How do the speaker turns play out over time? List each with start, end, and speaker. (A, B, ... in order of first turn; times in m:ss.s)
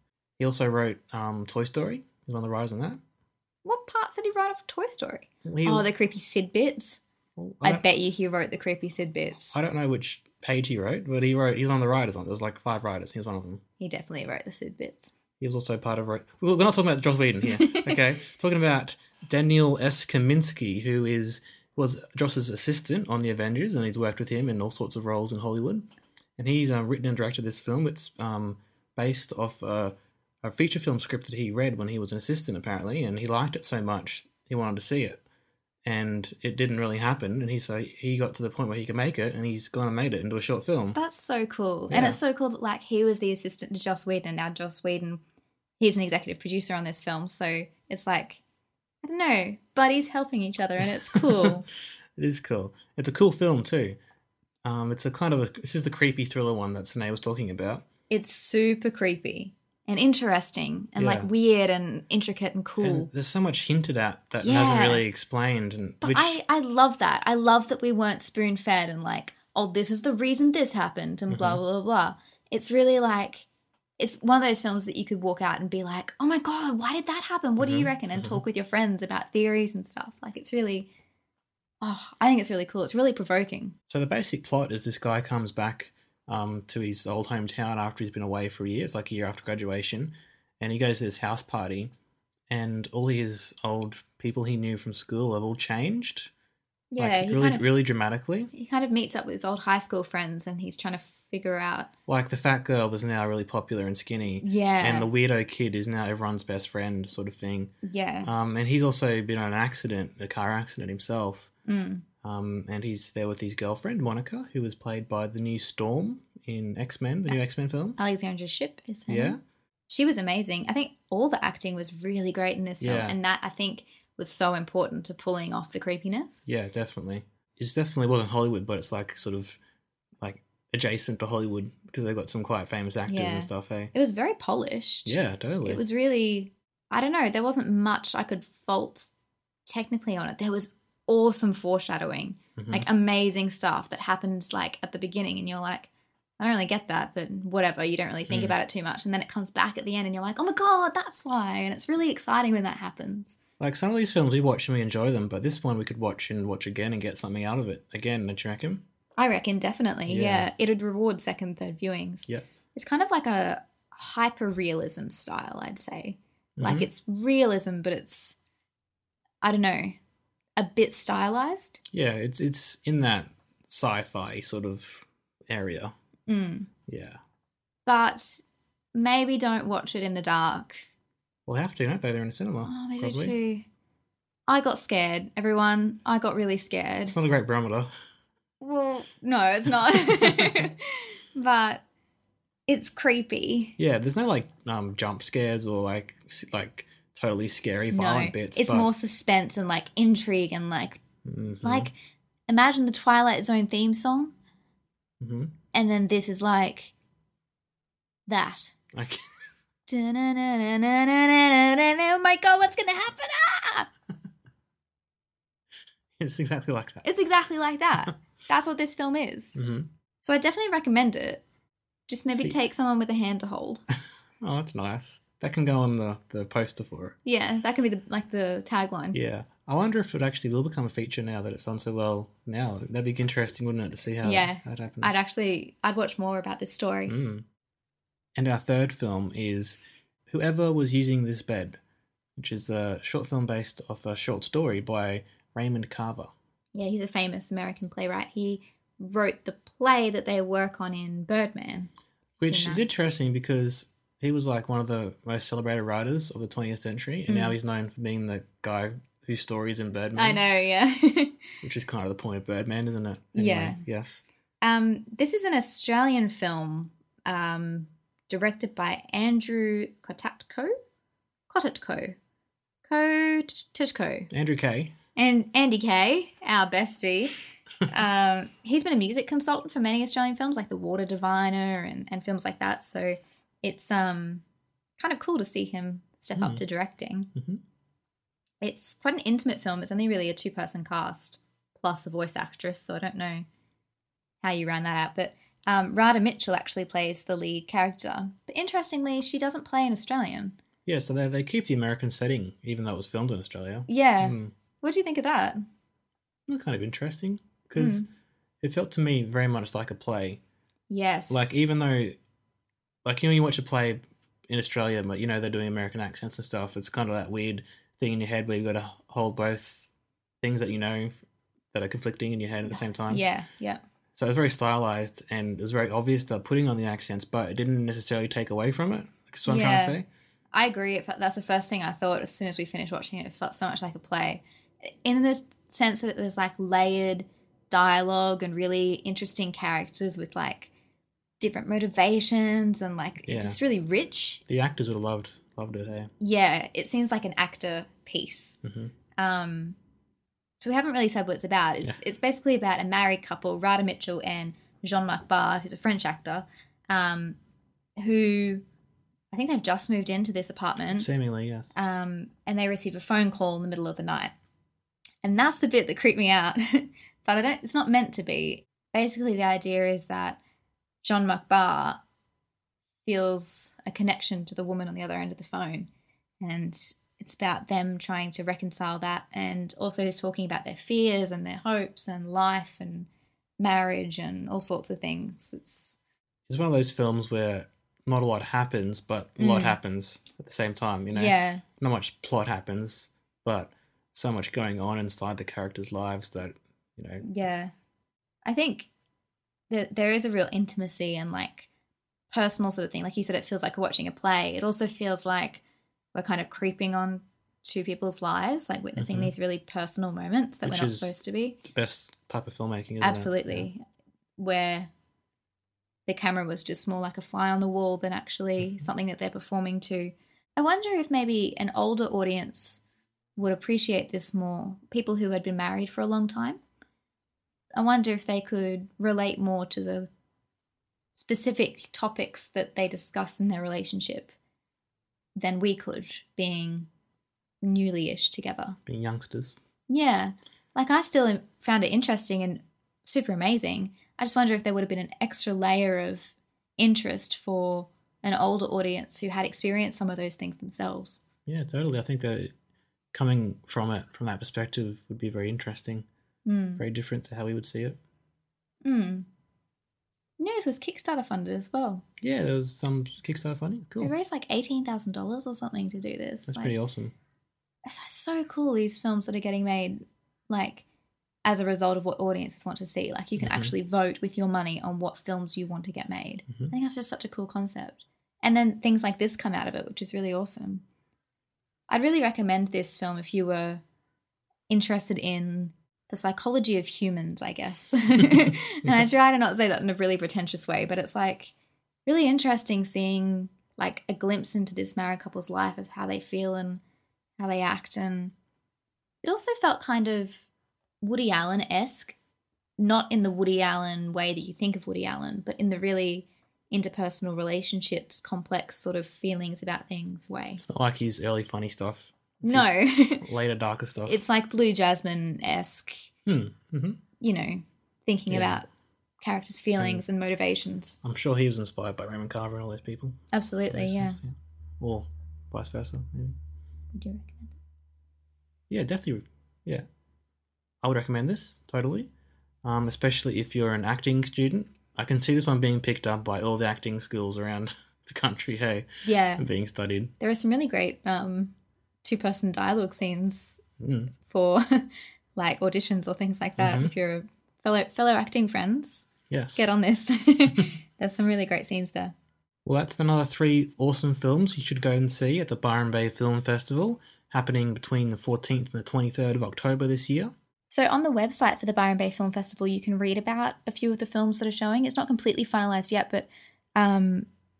0:00.4-0:03.0 A
0:03.6-0:07.0 B
0:05.4-0:05.8 A
0:07.4-0:07.8 A
0:07.6-0:09.6 B
0:09.5-0:13.6 A
0:13.8-0:15.1 B
0:15.4-0:35.2 A
0:17.5-0:18.0 B
0:35.8-0:41.0 A
0:40.9-0:45.2 B
0:41.9-0:42.2 A
0:45.8-0:48.4 B
0:49.0-0:51.6 B
0:51.1-0:51.5 A
0:52.2-0:54.0 A
0:54.6-0:57.8 A
0:58.1-1:03.1 B
1:01.0-1:01.3 A
1:02.8-1:06.4 A
1:04.4-1:05.1 B
1:06.0-1:13.5 B
1:11.3-1:11.6 A
1:14.0-1:20.9 B
1:17.6-1:18.4 A
1:21.8-1:23.8 B
1:23.9-1:31.9 A
1:32.5-1:36.3 A
1:36.9-1:37.7 B
1:37.0-1:38.5 A
1:38.5-1:41.9 B
1:42.1-1:51.5 A
1:44.4-1:45.1 B
1:47.8-1:48.3 B
1:51.7-1:52.0 B
1:52.2-1:58.0 A
1:58.0-2:06.4 B
1:59.1-1:59.4 A
2:02.8-2:03.2 A
2:06.4-2:09.6 A
2:10.2-2:13.9 A
2:13.1-2:19.1 B
2:15.0-2:15.8 A
2:19.6-2:33.4 B
2:22.6-2:22.9 A
2:28.3-2:28.6 A
2:33.6-2:38.8 A
2:39.2-2:48.4 B
2:40.1-2:40.5 A
2:46.6-2:46.9 A
2:49.4-2:50.0 B
2:50.6-2:51.8 B
2:51.9-2:56.0 A
2:56.3-2:56.7 B
2:56.9-2:57.2 A
2:57.8-2:58.4 B
2:58.9-3:00.8 B
3:01.4-3:03.4 A
3:02.6-3:03.7 B
3:04.5-3:07.2 B
3:07.1-3:07.9 A
3:08.6-3:11.8 B
3:12.7-3:13.8 B
3:13.8-3:18.9 A
3:17.9-3:21.0 B
3:21.2-3:21.9 A
3:21.6-3:21.9 B
3:22.5-3:24.3 B
3:25.2-3:25.5 A
3:25.7-3:26.9 B
3:28.3-3:28.7 B
3:28.9-3:29.2 A
3:29.9-3:33.9 B
3:36.2-3:37.0 A
3:37.0-3:39.6 B
3:39.5-3:39.9 A
3:40.2-3:41.4 B
3:42.1-3:43.8 B
3:44.4-3:47.2 A
3:47.2-3:49.2 B
3:49.1-3:55.2 A
3:54.2-3:57.1 B
3:57.1-3:57.4 A
3:58.3-4:01.8 A
4:02.4-4:06.3 A
4:06.7-4:12.8 B
4:12.4-4:20.4 A
4:17.3-4:17.6 B
4:20.1-4:21.4 B
4:21.6-4:24.2 A
4:23.3-4:23.8 B
4:24.6-4:30.7 B
4:31.5-4:32.2 B
4:32.8-4:34.3 B
4:34.3-4:35.0 A
4:35.2-4:44.4 B
4:45.0-4:47.3 B
4:47.4-4:47.6 A
4:48.6-4:53.4 B
4:54.4-5:00.6 B
5:00.8-5:04.5 A
5:03.9-5:05.6 B
5:06.5-5:08.0 A
5:07.8-5:08.1 B
5:08.6-5:10.4 A
5:10.9-5:11.6 B
5:11.3-5:12.2 A
5:13.0-5:19.9 A
5:20.4-5:21.1 A
5:21.7-5:23.2 A
5:22.7-5:23.8 B
5:24.1-5:30.1 A
5:29.4-5:30.0 B
5:30.5-5:40.7 B
5:41.4-5:44.4 B
5:43.2-5:43.6 A
5:44.4-5:46.1 A
5:46.2-5:48.6 B
5:48.6-5:48.9 A
5:49.2-5:49.8 B
5:50.6-5:57.4 B
5:58.0-5:58.6 B
5:59.3-6:01.1 B
6:00.9-6:01.7 A
6:01.7-6:04.3 B
6:05.2-6:10.4 B
6:11.0-6:12.0 B
6:13.0-6:15.9 B
6:16.4-6:23.1 B
6:23.6-6:26.0 B
6:26.5-6:37.3 A
6:29.4-6:29.8 B
6:31.1-6:31.6 B
6:37.2-6:37.7 B
6:38.4-6:38.9 B
6:39.7-6:41.7 B
6:42.3-6:45.6 B
6:46.1-6:51.6 B
6:49.0-6:49.3 A
6:50.6-6:53.7 A
6:53.0-6:53.8 B
6:54.4-6:54.9 B
6:56.0-7:02.8 B
7:03.4-7:06.6 B
7:07.7-7:10.1 B
7:11.1-7:14.3 B
7:15.4-7:16.9 B
7:17.6-7:18.8 B
7:18.8-7:19.6 A
7:19.9-7:31.2 B
7:31.4-7:32.5 A
7:33.1-7:36.1 A
7:36.4-7:36.8 B
7:36.8-7:38.0 A
7:38.8-7:39.3 B
7:40.4-7:42.0 B
7:42.2-7:44.1 A
7:44.0-7:46.8 B
7:46.4-7:47.1 A
7:47.8-7:50.8 B
7:51.4-8:00.8 B
7:53.4-7:53.7 A
8:01.9-8:03.8 B
8:04.7-8:11.5 B
8:12.0-8:16.8 B
8:17.4-8:18.3 B
8:19.2-8:20.4 B
8:21.0-8:22.2 B
8:22.8-8:30.6 B
8:30.6-8:34.2 A
8:32.4-8:33.3 B
8:34.1-8:36.1 B
8:36.2-8:37.0 A
8:37.2-8:38.7 B
8:38.3-8:38.6 A
8:39.2-8:41.0 B
8:39.8-8:40.0 A
8:41.0-8:46.4 A
8:43.3-8:44.2 B
8:46.9-8:47.5 B
8:48.7-8:49.8 A
8:50.8-8:52.1 A
8:52.6-9:00.1 A
8:59.0-8:59.4 B
9:00.2-9:03.6 B
9:03.8-9:04.1 A
9:04.2-9:12.1 B
9:06.6-9:06.9 A
9:09.3-9:09.6 A
9:12.6-9:20.3 A
9:20.7-9:27.3 B